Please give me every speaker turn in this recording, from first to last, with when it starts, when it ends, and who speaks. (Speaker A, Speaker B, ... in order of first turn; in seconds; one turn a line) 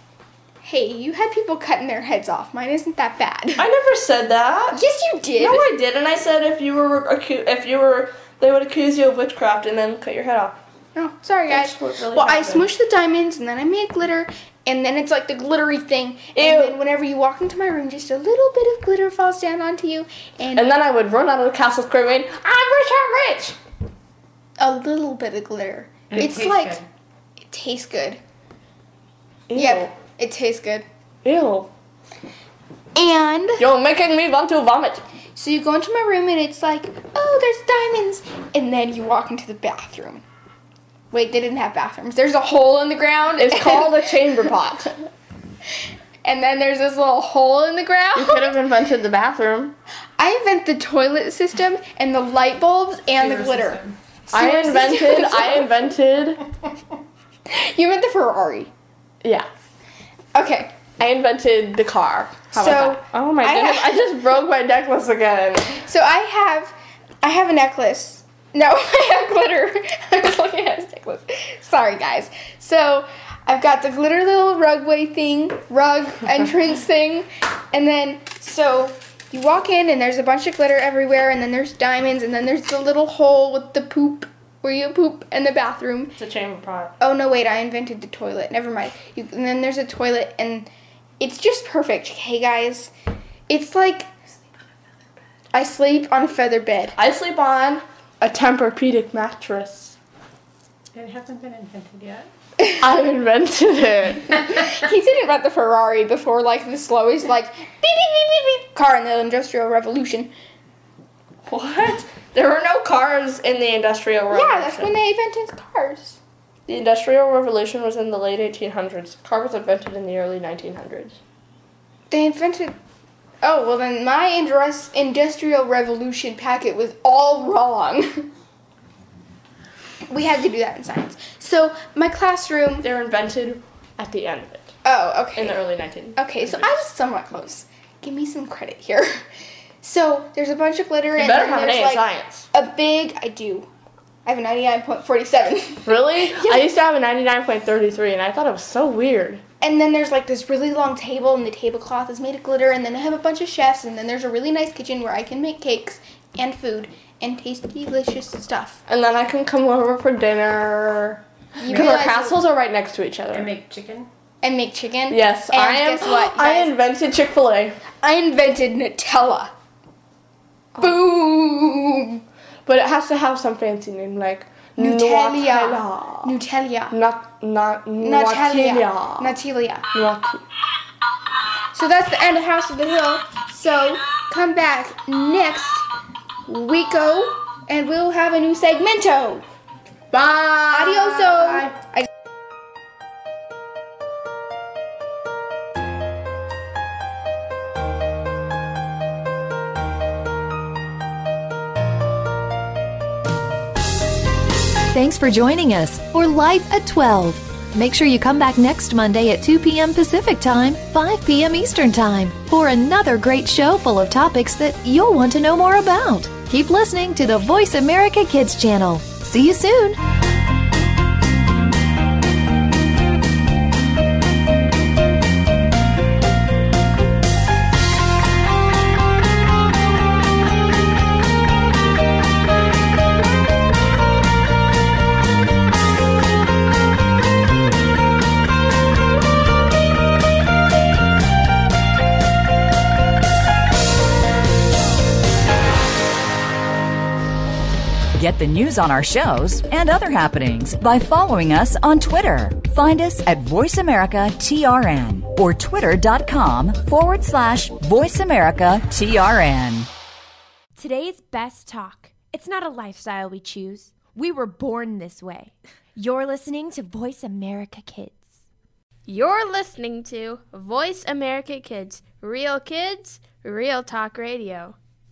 Speaker A: 0.6-3.7
Speaker B: 3.6-4.8
Speaker A: 4.7-5.7
Speaker B: 5.4-10.6
Speaker A: 10.9-20.7
Speaker B: 11.5-12.7
Speaker B: 16.4-16.8
Speaker B: 20.6-23.6
Speaker A: 24.6-26.8
Speaker C: 26.1-26.9
Speaker A: 27.5-28.2
Speaker B: 29.5-29.9
Speaker A: 29.5-30.9
Speaker B: 31.2-31.7
Speaker A: 33.0-33.6
Speaker B: 33.6-35.0
Speaker A: 35.4-40.2
Speaker A: 41.1-44.0
Speaker B: 43.4-44.9
Speaker A: 46.2-48.6
Speaker B: 48.1-49.8
Speaker A: 50.2-55.8
Speaker C: 53.2-54.0
Speaker B: 54.3-56.5
Speaker A: 57.5-58.7
Speaker B: 59.2-59.5
Speaker A: 60.3-60.7
Speaker B: 61.0-65.9
Speaker A: 62.5-64.1
Speaker A: 65.9-86.2
Speaker B: 86.2-86.9
Speaker A: 87.0-90.7
Speaker A: 91.2-92.9
Speaker A: 93.5-94.1
Speaker A: 95.5-97.0
Speaker B: 97.0-100.0
Speaker C: 100.9-102.3
Speaker B: 102.8-104.5
Speaker A: 104.4-110.3
Speaker B: 111.5-115.0
Speaker A: 114.3-116.2
Speaker B: 116.7-121.2
Speaker A: 122.1-122.8
Speaker A: 123.4-128.3
Speaker A: 130.1-132.9
Speaker B: 132.8-134.8
Speaker A: 134.8-135.6
Speaker B: 135.3-136.8
Speaker A: 136.2-139.2
Speaker A: 139.8-143.7
Speaker B: 141.2-142.5
Speaker A: 144.2-146.7
Speaker B: 145.8-149.4
Speaker A: 149.6-158.8
Speaker B: 158.9-163.5
Speaker A: 161.6-162.4
Speaker C: 163.3-164.1
Speaker A: 164.4-166.7
Speaker B: 165.1-167.8
Speaker A: 168.0-169.5
Speaker A: 170.8-172.2
Speaker B: 172.7-176.4
Speaker A: 174.8-176.9
Speaker B: 176.9-179.4
Speaker A: 178.0-179.9
Speaker B: 179.9-180.4
Speaker A: 181.7-185.9
Speaker A: 186.5-189.5
Speaker B: 190.1-191.7
Speaker A: 190.7-192.1
Speaker D: 204.9-220.0
Speaker E: 248.2-259.9
Speaker F: 260.8-268.4
Speaker G: 269.1-274.8